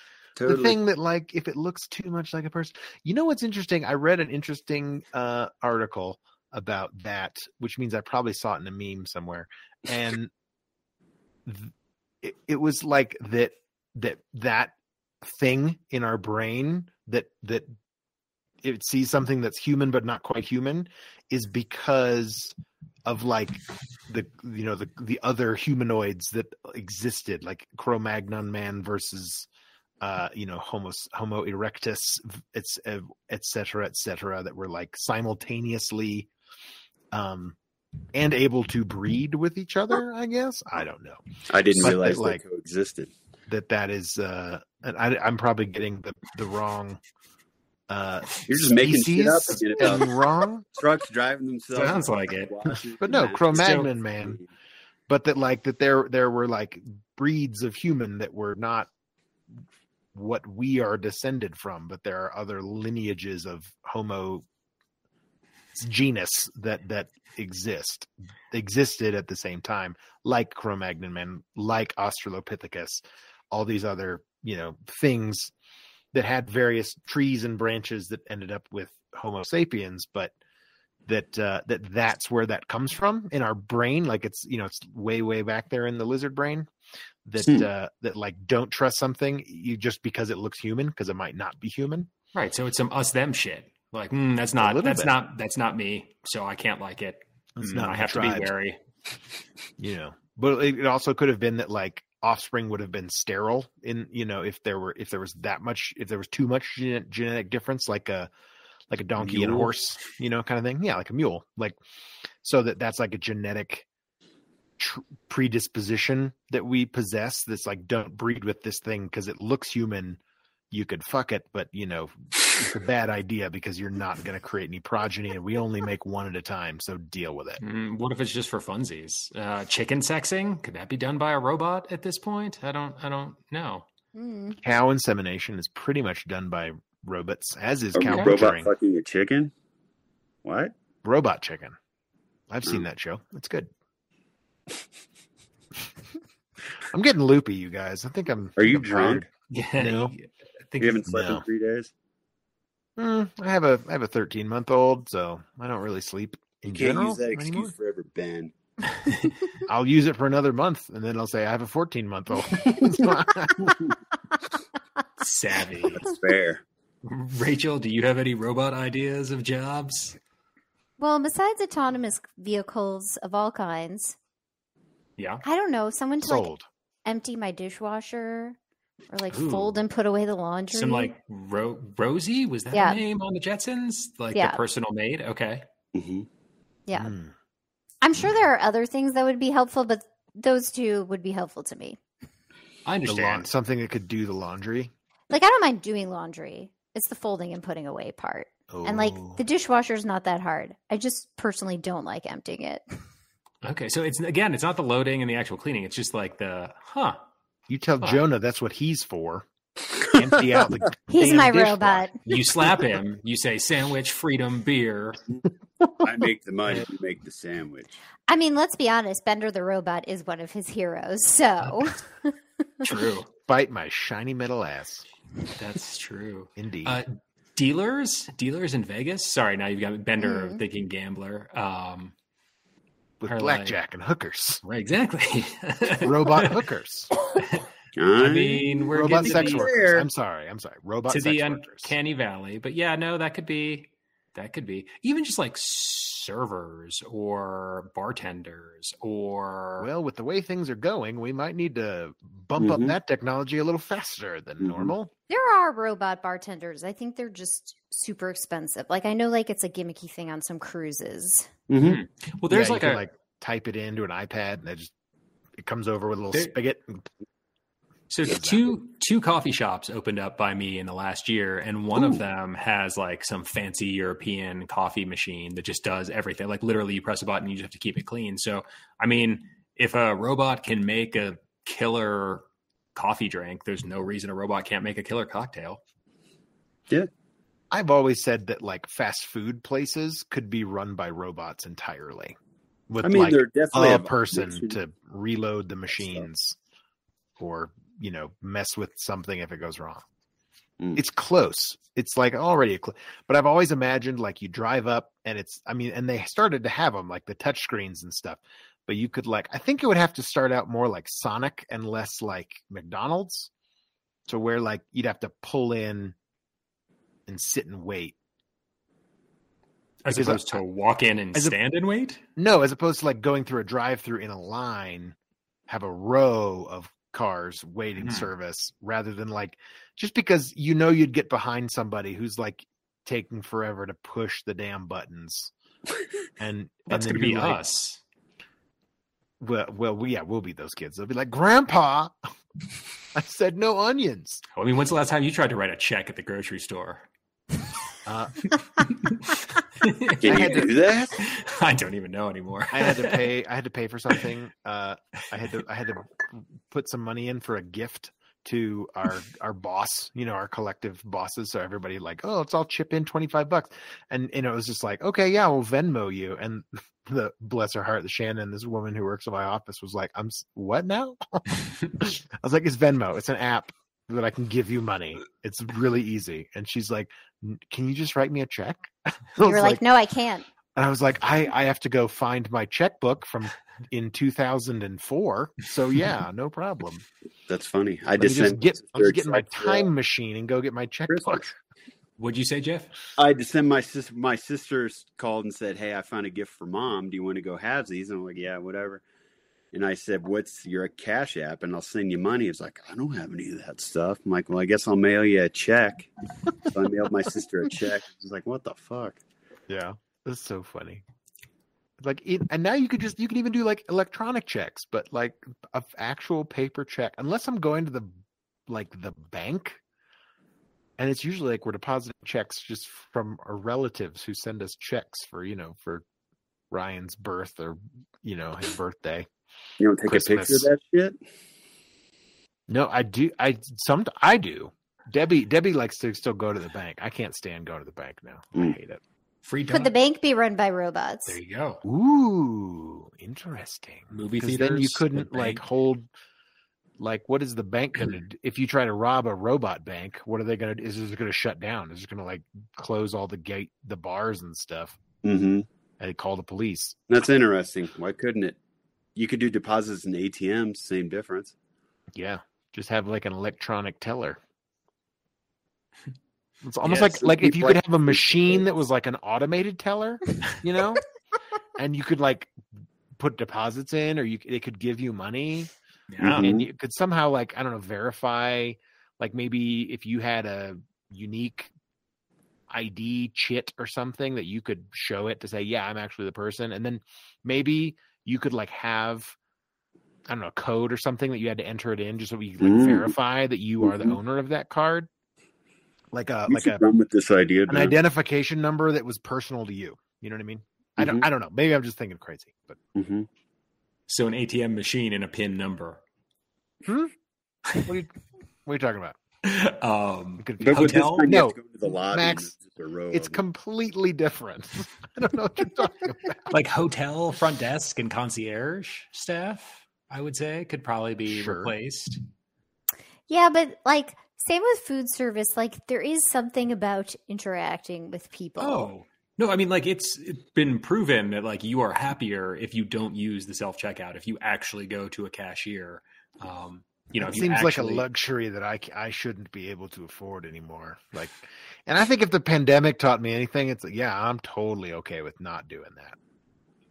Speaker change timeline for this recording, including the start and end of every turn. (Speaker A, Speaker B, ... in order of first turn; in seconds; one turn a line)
Speaker A: 0.4-0.8
Speaker B: 0.5-10.3
Speaker B: 11.5-17.8
Speaker B: 18.6-22.6
Speaker B: 23.1-29.5
Speaker B: 30.0-36.3
Speaker B: 37.1-37.6
Speaker B: 38.1-42.4
Speaker A: 41.5-43.1
Speaker B: 43.5-47.0
Speaker B: 47.9-50.6
Speaker A: 48.5-50.1
Speaker A: 50.8-54.5
Speaker C: 51.7-52.5
Speaker B: 53.0-54.4
Speaker C: 53.5-53.9
Speaker B: 55.1-58.9
Speaker B: 60.1-64.5
Speaker B: 65.8-75.5
Speaker B: 76.1-80.3
Speaker B: 81.1-86.7
Speaker B: 87.3-92.1
Speaker C: 92.3-98.8
Speaker B: 94.6-95.2
Speaker B: 97.6-98.5
Speaker B: 99.8-108.3
Speaker B: 108.9-111.8
Speaker A: 109.2-109.7
Speaker B: 112.4-113.9
Speaker B: 114.8-120.2
Speaker B: 120.7-127.6
Speaker C: 127.6-133.9
Speaker D: 134.2-134.6
Speaker B: 134.6-138.7
Speaker A: 137.9-139.5
Speaker A: 140.4-140.7
Speaker B: 141.0-141.8
Speaker B: 142.5-143.7
Speaker B: 146.9-150.2
Speaker A: 148.6-149.2
Speaker C: 149.5-151.0
Speaker A: 150.8-151.9
Speaker B: 151.1-151.4
Speaker B: 153.0-157.7
Speaker A: 156.7-158.5
Speaker B: 159.7-163.9
Speaker C: 165.2-166.1
Speaker A: 165.9-166.6
Speaker C: 167.0-170.2
Speaker D: 171.0-174.2
Speaker C: 175.2-175.4
Speaker D: 175.4-176.5
Speaker B: 176.2-176.7
Speaker D: 177.1-178.6
Speaker D: 179.1-181.1
Speaker C: 179.3-179.8
Speaker C: 180.7-185.7
Speaker D: 182.7-183.0
Speaker D: 184.3-184.6
Speaker A: 185.9-186.3
Speaker D: 186.9-187.1
Speaker B: 186.9-187.3
Speaker D: 188.0-192.0
Speaker C: 192.8-193.5
Speaker B: 193.1-194.9
Speaker D: 195.3-202.8
Speaker B: 198.7-199.4
Speaker C: 203.6-207.2
Speaker B: 207.7-209.5
Speaker B: 210.1-212.3
Speaker D: 211.1-212.2
Speaker C: 212.3-215.2
Speaker A: 216.0-217.9
Speaker D: 218.3-222.9
Speaker C: 222.8-223.3
Speaker B: 223.5-225.1
Speaker C: 225.5-232.1
Speaker B: 226.6-227.0
Speaker D: 230.2-230.6
Speaker B: 233.2-234.6
Speaker C: 233.3-233.8
Speaker C: 234.6-236.6
Speaker B: 236.0-237.1
Speaker C: 237.4-237.7
Speaker A: 238.0-240.1
Speaker C: 238.2-239.7
Speaker B: 238.9-241.9
Speaker C: 241.1-249.9
Speaker B: 249.8-255.1
Speaker A: 252.6-253.0
Speaker A: 254.6-254.9
Speaker D: 255.3-261.5
Speaker A: 261.7-262.0
Speaker C: 261.8-263.0
Speaker B: 262.5-264.9
Speaker B: 265.6-267.1
Speaker C: 268.1-285.8
Speaker B: 268.2-268.7
Speaker B: 287.7-292.4
Speaker B: 292.9-296.6
Speaker A: 293.0-294.8
Speaker B: 297.4-300.0
Speaker B: 301.0-313.5
Speaker B: 314.3-316.1
Speaker B: 317.3-318.2
Speaker C: 320.0-322.2
Speaker B: 320.1-320.6
Speaker B: 322.4-325.2
Speaker B: 325.7-335.5
Speaker C: 328.0-328.3
Speaker B: 336.4-337.6
Speaker C: 336.9-338.0
Speaker B: 339.4-342.2
Speaker B: 343.1-344.4
Speaker C: 344.6-347.1
Speaker B: 348.1-348.5
Speaker C: 349.3-353.3
Speaker A: 350.2-351.1
Speaker B: 350.2-351.2
Speaker B: 352.7-379.8
Speaker D: 379.4-380.5
Speaker B: 380.8-387.1
Speaker A: 387.5-389.9
Speaker B: 388.2-391.5
Speaker A: 391.1-391.5
Speaker C: 392.2-392.9
Speaker A: 393.2-399.0
Speaker A: 399.7-406.1
Speaker A: 406.6-409.2
Speaker B: 409.7-411.0
Speaker B: 412.0-418.1
Speaker B: 418.7-419.8
Speaker B: 421.0-426.1
Speaker B: 426.7-429.3
Speaker A: 429.8-431.2
Speaker B: 430.1-430.7
Speaker B: 432.7-439.0
Speaker C: 439.4-439.9
Speaker D: 439.7-441.4
Speaker C: 441.3-441.8
Speaker B: 441.8-446.1
Speaker C: 444.1-445.6
Speaker B: 447.0-455.0
Speaker A: 455.2-455.7
Speaker B: 456.0-457.0
Speaker A: 457.1-458.6
Speaker A: 459.2-461.5
Speaker B: 462.1-464.4
Speaker B: 466.6-471.0
Speaker C: 466.8-467.2
Speaker A: 467.1-468.6
Speaker B: 471.8-472.5
Speaker B: 473.2-475.7
Speaker C: 476.1-476.5
Speaker A: 476.2-476.7
Speaker B: 476.4-481.7
Speaker B: 482.7-489.4
Speaker B: 490.3-495.1
Speaker A: 492.6-493.1
Speaker A: 493.8-494.2
Speaker B: 496.1-496.9
Speaker A: 496.5-497.9
Speaker B: 497.7-502.8
Speaker A: 501.0-501.3
Speaker A: 503.0-503.3
Speaker C: 504.1-506.0
Speaker B: 506.9-507.1
Speaker B: 507.7-508.1
Speaker B: 508.6-509.2
Speaker C: 509.4-511.3
Speaker B: 510.4-512.5
Speaker A: 510.6-513.4
Speaker B: 513.1-516.5
Speaker C: 516.5-522.2
Speaker B: 521.3-521.7
Speaker D: 523.3-528.9
Speaker C: 528.6-538.0
Speaker B: 537.2-546.2